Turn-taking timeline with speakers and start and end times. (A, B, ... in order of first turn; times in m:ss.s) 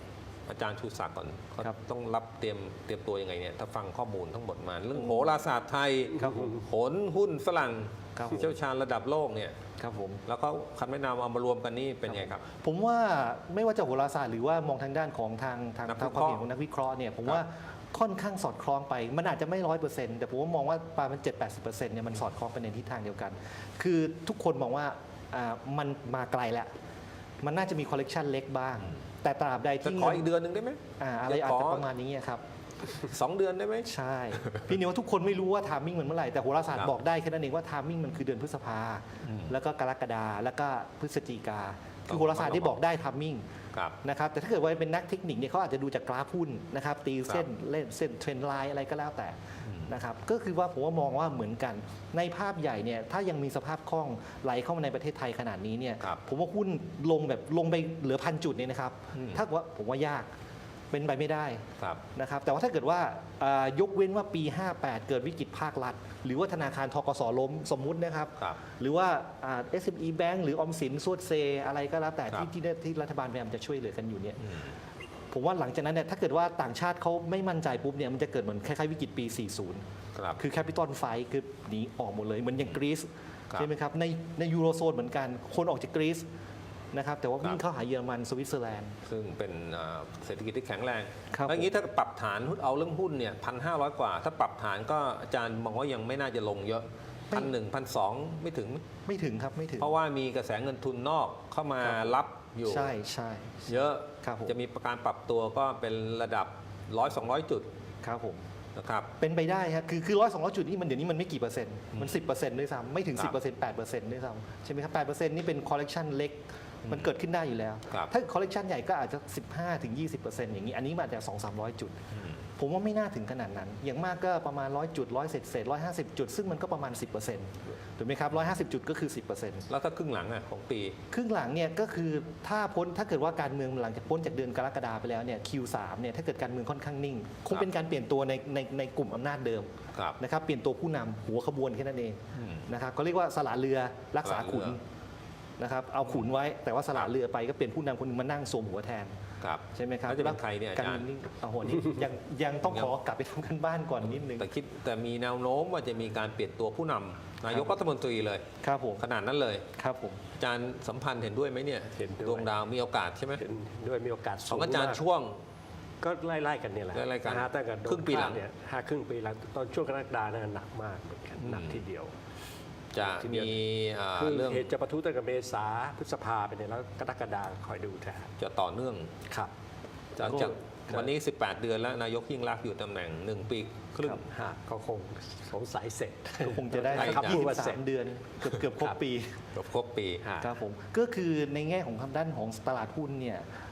0:00.5-0:09.6 A
0:06.2-0:06.6 B
0:08.2-0:08.5 B
0:09.8-0:10.2 B
0:10.3-0:12.4 A
0:12.1-0:26.7 B
0:15.9-0:16.5 A
0:27.4-0:30.3 B
0:29.8-0:31.9 A
0:31.0-0:32.4 B
0:32.9-0:34.7 A
0:33.8-0:43.4 B
0:39.2-0:39.6 A
0:42.1-0:42.8 A
0:44.0-1:00.3 B
0:49.6-0:50.0 A
0:59.1-0:59.4 A
1:00.9-1:14.6 B
1:14.4-1:14.7 A
1:15.3-1:19.8 B
1:20.2-1:20.4 A
1:20.4-1:26.3 B
1:26.9-1:29.0 B
1:29.1-1:38.8 A
1:31.3-1:31.7 B
1:39.0-1:39.9 B
1:39.8-1:43.0 A
1:41.8-1:44.6 B
1:43.7-1:47.7 A
1:48.0-1:48.4 B
1:48.8-1:49.1 A
1:49.2-2:02.0 B
1:51.9-1:52.2 A
1:56.8-1:57.1 A
2:02.1-2:02.4 A
2:02.6-2:09.7 B
2:09.7-2:11.0 A
2:11.1-2:24.8 B
2:22.3-2:22.7 A
2:24.2-2:24.8 A
2:25.6-2:29.2 B
2:29.4-2:31.1 A
2:29.7-2:34.5 B
2:32.6-2:32.9 A
2:34.0-2:38.4 A
2:37.5-2:37.8 B
2:38.6-2:39.0 B
2:39.0-2:39.7 A
2:39.8-2:40.2 B
2:40.4-2:43.4 A
2:42.0-2:42.5 C
2:43.4-2:45.0 C
2:44.5-2:45.4 A
2:46.0-2:52.1 C
2:46.9-2:48.4 A
2:51.4-2:51.8 A
2:52.9-2:54.7 A
2:53.0-2:53.6 C
2:54.2-2:58.3 C
2:58.4-2:59.1 A
3:00.2-3:01.0 C
3:00.2-3:04.3 A
3:00.2-3:01.0 B
3:04.2-3:07.8 C
3:06.5-3:09.4 B
3:06.9-3:07.5 A
3:09.5-3:10.3 A
3:10.2-3:10.5 C
3:10.4-3:13.5 B